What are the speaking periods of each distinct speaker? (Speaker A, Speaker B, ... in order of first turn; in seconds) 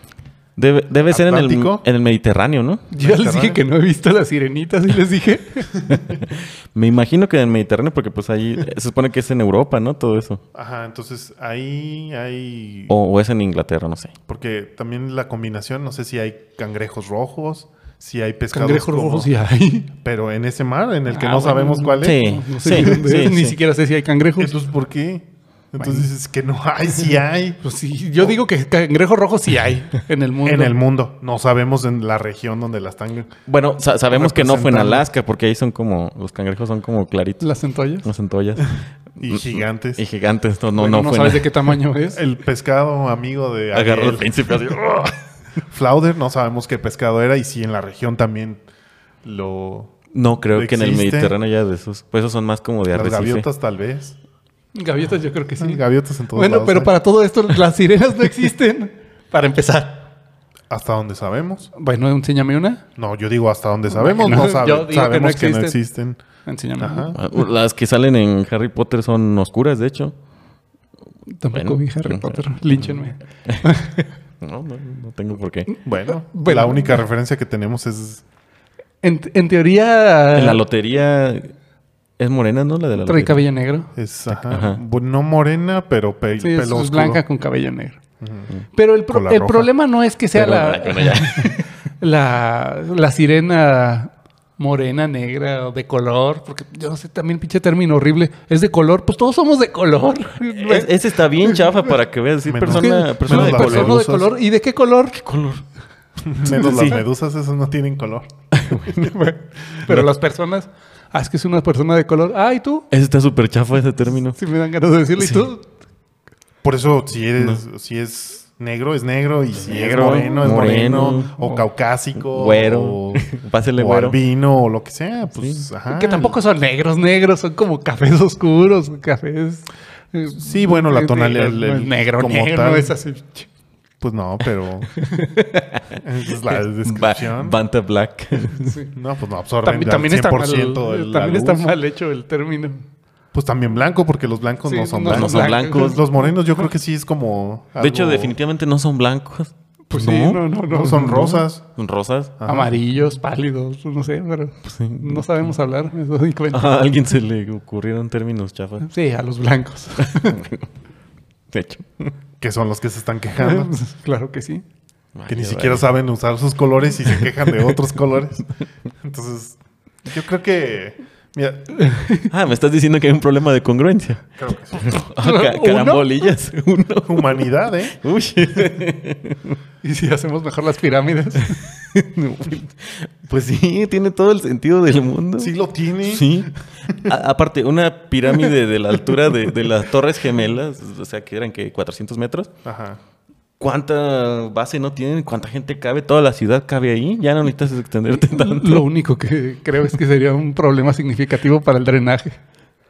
Speaker A: 0.6-2.9, 5.9-10.4, 12.9-14.1, 22.0-23.6, 33.5-37.5, 38.0-41.7, 43.7-45.2, 50.1-53.5, 67.2-70.1, 71.5-73.8, 74.4-75.7, 80.3-81.5, 82.2-83.4, 84.4-84.8, 90.3-91.7, 100.5-104.0, 105.1-105.6, 106.5-107.0, 108.5-109.1, 112.9-114.4, 115.2-115.5, 119.7-121.4, 122.2-124.2, 125.3-125.6, 135.4-135.8, 136.5-138.8, 145.1-146.0, 147.8-150.4, 151.0-152.3, 154.6-155.2, 156.5-158.9, 160.0-160.7, 161.5-162.1, 165.1-165.8, 167.1-167.6, 172.3-179.6, 181.5-192.5, 193.6-198.8
Speaker B: 1.1-1.8, 2.9-3.6, 10.5-12.9, 14.3-19.3, 19.9-22.3, 24.4-27.6, 30.4-33.3, 34.1-35.0, 39.2-40.0, 42.1-44.3, 45.7-48.6, 49.2-49.9, 50.5-51.3, 52.9-54.2, 55.6-56.9, 60.7-61.7, 63.0-66.2, 66.8-67.2, 75.8-78.2, 83.9-87.2, 88.2-88.5, 89.1-89.7, 102.5-104.3, 106.2-108.3, 116.6-126.3, 130.4-132.9, 134.0-134.9, 135.9-137.6, 138.9-141.7, 143.3-148.4, 150.7-151.7, 152.4-152.7, 162.4-163.7, 165.3-168.4, 169.0-171.7, 174.4-174.9, 177.1-178.0, 185.4-187.1, 192.6-193.0
Speaker C: 2.9-5.8, 18.5-19.9, 21.1-24.5, 25.8-26.1, 27.6-30.8, 37.4-38.0, 40.8-42.2, 54.7-55.8, 56.3-60.0, 61.8-62.8, 63.9-65.8, 66.5-67.1, 71.3-74.0, 76.3-77.0, 79.0-80.6, 83.0-83.9, 86.4-88.0, 88.7-101.8, 102.7-105.2, 106.4-107.0, 109.0-112.9, 114.4-115.7, 125.9-133.5, 135.0-135.6, 138.6-138.9, 139.6-142.8, 144.7-146.3, 149.9-151.4, 152.4-156.7, 158.8-160.4, 163.4-164.6, 171.8-172.3, 175.2-176.3, 179.8-181.6, 198.1-202.4